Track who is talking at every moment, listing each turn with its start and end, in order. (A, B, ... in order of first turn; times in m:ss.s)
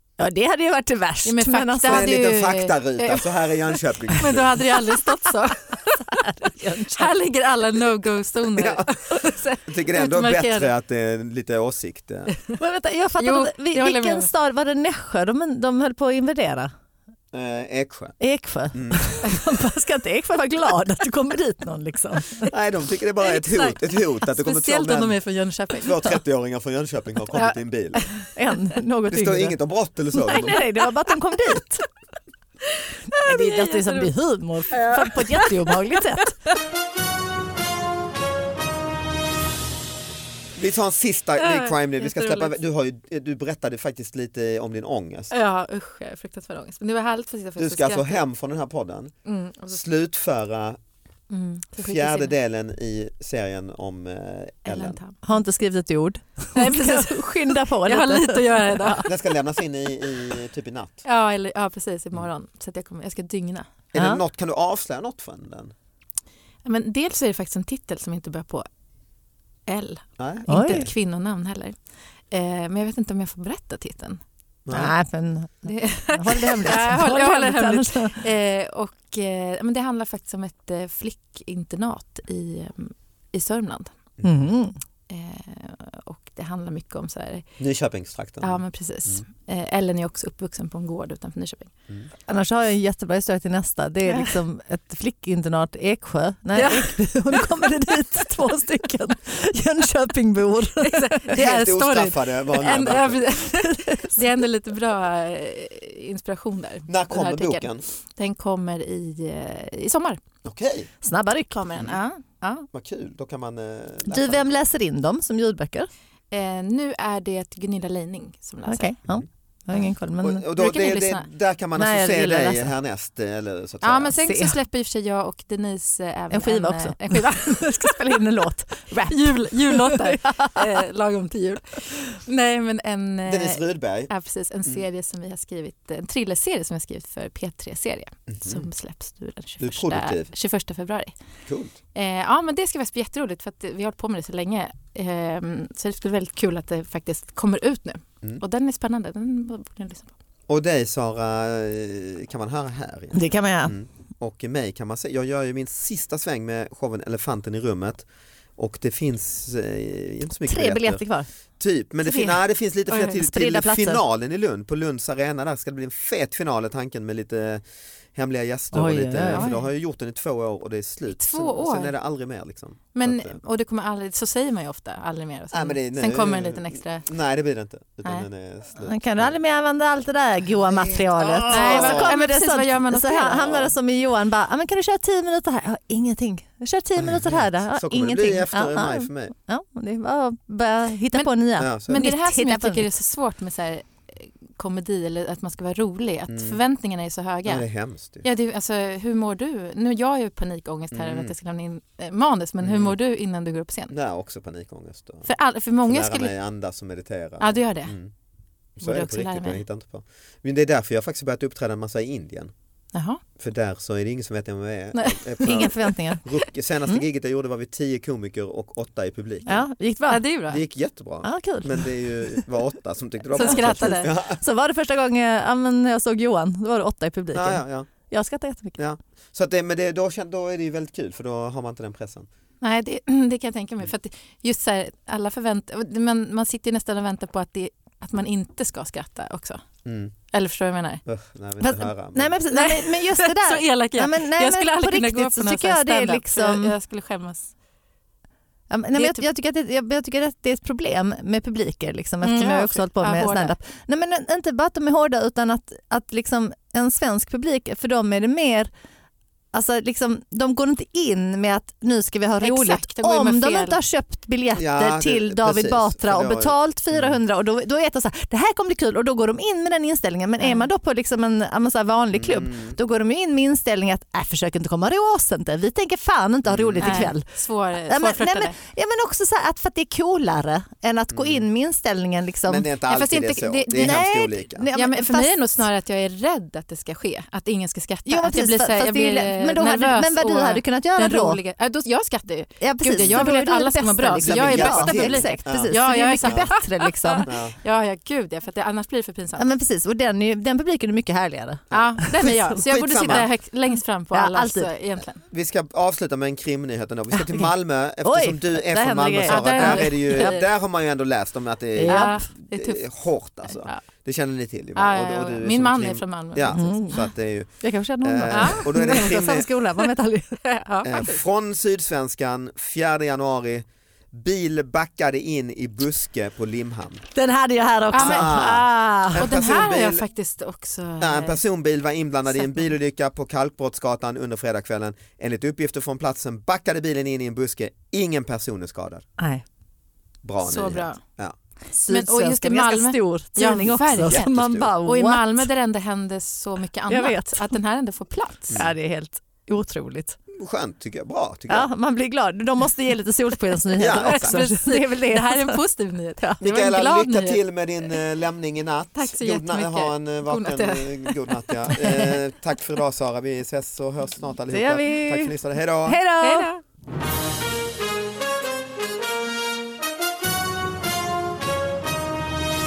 0:00.2-0:02.2 A
0:01.2-0:03.5 B
0:01.9-0:04.6 C
0:04.1-0:06.2 B
0:06.1-0:07.1 A
0:06.7-0:10.7 B
0:08.6-0:08.9 C
0:09.7-0:12.3 C
0:12.6-0:16.7 A
0:13.2-0:14.3 B
0:17.3-0:18.2 C
0:18.2-0:22.5 A
0:18.7-0:19.1 C
0:22.5-0:25.2 C
0:23.2-0:26.2 B
0:25.8-0:28.1 C
0:27.3-0:28.2 B
0:28.3-0:29.6 A
0:29.1-0:30.6 C
0:30.1-0:31.9 A
0:33.1-0:34.1 B
0:33.2-0:36.4 A
0:34.7-0:36.0 B
0:40.6-0:45.3 C
0:41.4-0:42.6 B
0:45.3-0:48.2 B
0:47.6-0:49.1 C
0:49.2-0:49.8 B
0:49.7-0:50.8 C
0:51.3-0:52.3 B
0:51.8-0:55.0 C
0:54.7-0:55.4 B
0:55.2-0:59.0 A
0:56.6-0:59.1 B
0:59.1-1:01.0 C
1:01.0-1:03.7 B
1:03.9-1:05.7 C
1:04.0-1:04.2 A
1:06.6-1:08.7 B
1:09.7-1:11.8 B
1:10.2-1:10.9 C
1:10.5-1:10.9 A
1:12.3-1:14.2 B
1:14.7-1:15.0 C
1:14.7-1:18.2 A
1:15.6-1:24.0 B
1:24.2-1:24.8 A
1:25.1-1:27.5 B
1:27.6-1:29.2 C
1:28.4-1:31.7 B
1:32.3-1:41.2 A
1:34.1-1:34.4 B
1:36.6-1:37.7 B
1:40.8-1:47.7 B
1:41.3-1:43.2 C
1:43.6-1:44.2 A
1:46.9-1:47.8 C
1:48.2-1:50.2 B
1:50.4-1:50.9 C
1:51.0-1:51.8 A
1:51.6-1:52.7 B
1:52.7-1:54.5 C
1:54.1-1:55.9 A
1:56.3-1:58.9 B
1:58.7-2:00.5 A
2:00.2-2:04.1 C
2:00.6-2:01.3 B
2:01.8-2:02.7 A
2:03.8-2:08.0 B
2:04.3-2:04.6 A
2:06.3-2:10.7 A
2:09.1-2:21.1 B
2:13.3-2:14.1 C
2:18.3-2:18.7 C
2:19.6-2:20.3 C
2:21.5-2:21.7 C
2:22.0-2:30.1 B
2:30.5-2:38.0 C
2:33.1-2:33.7 A
2:38.6-2:41.0 C
2:40.5-2:41.3 A
2:41.6-2:47.6 C
2:42.1-2:42.3 A
2:42.9-2:44.0 A
2:48.2-2:53.4 C
2:48.7-2:49.5 A
2:49.3-2:49.7 B
2:51.1-2:52.0 B
2:52.9-2:57.1 B
2:55.5-2:59.4 C
2:58.8-3:12.9 A
3:00.7-3:02.1 C
3:01.5-3:03.7 B
3:03.4-3:03.7 C
3:07.0-3:09.3 C
3:11.6-3:12.1 C
3:11.9-3:17.6 B
3:16.3-3:16.6 C
3:17.5-3:18.2 C
3:18.2-3:23.9 B
3:20.9-3:21.3 C
3:22.6-3:23.0 C
3:23.9-3:25.3 C
3:25.3-3:26.4 B
3:25.8-3:28.1 C
3:27.4-3:27.9 B
3:28.8-3:32.5 C
3:28.8-3:29.6 B
3:32.9-3:33.2 B
3:33.4-3:39.6 C
3:34.9-3:35.9 B
3:35.4-3:36.2 A
3:39.5-3:40.2 A
3:40.1-3:40.6 B
3:40.5-3:44.4 C
3:41.2-3:42.4 A
3:43.4-3:44.1 B
3:43.4-3:48.8 A
3:47.3-3:47.9 C
3:48.8-3:52.3 C
3:52.6-3:59.6 B
3:59.8-4:00.1 C
4:00.3-4:01.0 B
4:01.1-4:02.4 C
4:01.6-4:06.7 A
4:02.5-4:07.5 B
4:08.7-4:18.7 A
4:09.0-4:09.2 B
4:12.2-4:13.5 B
4:19.5-4:37.3 A
4:22.4-4:23.8 B
4:24.6-4:27.2 C
4:30.4-4:30.7 B
4:32.1-4:32.8 C
4:36.4-4:37.1 C
4:36.8-4:38.6 B
4:37.8-4:42.7 A
4:41.1-4:41.5 C
4:42.5-4:44.7 C
4:42.9-4:44.1 B
4:43.8-4:45.6 A
4:44.7-4:59.5 B
4:48.1-4:51.4 A
4:52.6-4:57.3 A
4:53.0-4:53.3 C
4:54.2-4:56.5 C
4:57.3-4:57.6 C
4:59.4-5:03.2 A
5:01.7-5:03.3 C
5:01.7-5:05.2 B
5:04.1-5:04.7 A
5:05.3-5:19.5 C
5:07.2-5:07.5 A
5:08.0-5:10.4 A
5:09.3-5:10.4 B
5:11.8-5:12.2 A
5:11.8-5:12.9 B
5:13.5-5:13.8 B
5:14.8-5:16.8 B
5:16.5-5:17.1 A
5:17.6-5:20.4 A
5:18.3-5:19.1 B
5:20.4-5:21.2 B
5:20.8-5:27.0 C
5:27.2-5:29.3 A
5:27.9-5:28.4 B
5:28.0-5:30.0 C
5:29.2-5:31.4 B
5:31.0-5:39.0 C
5:39.2-5:39.4 A
5:40.2-5:41.4 C
5:40.4-5:41.0 B
5:41.7-5:45.5 A
5:41.9-5:48.6 B
5:44.0-5:44.7 C
5:46.9-5:47.6 A
5:48.5-5:50.2 A
5:50.3-5:51.7 C
5:51.5-5:55.6 A
5:53.8-5:54.4 C
5:53.9-5:57.4 B
5:56.4-6:06.0 C
5:59.0-6:02.2 B
6:04.5-6:06.5 A
6:06.2-6:06.6 B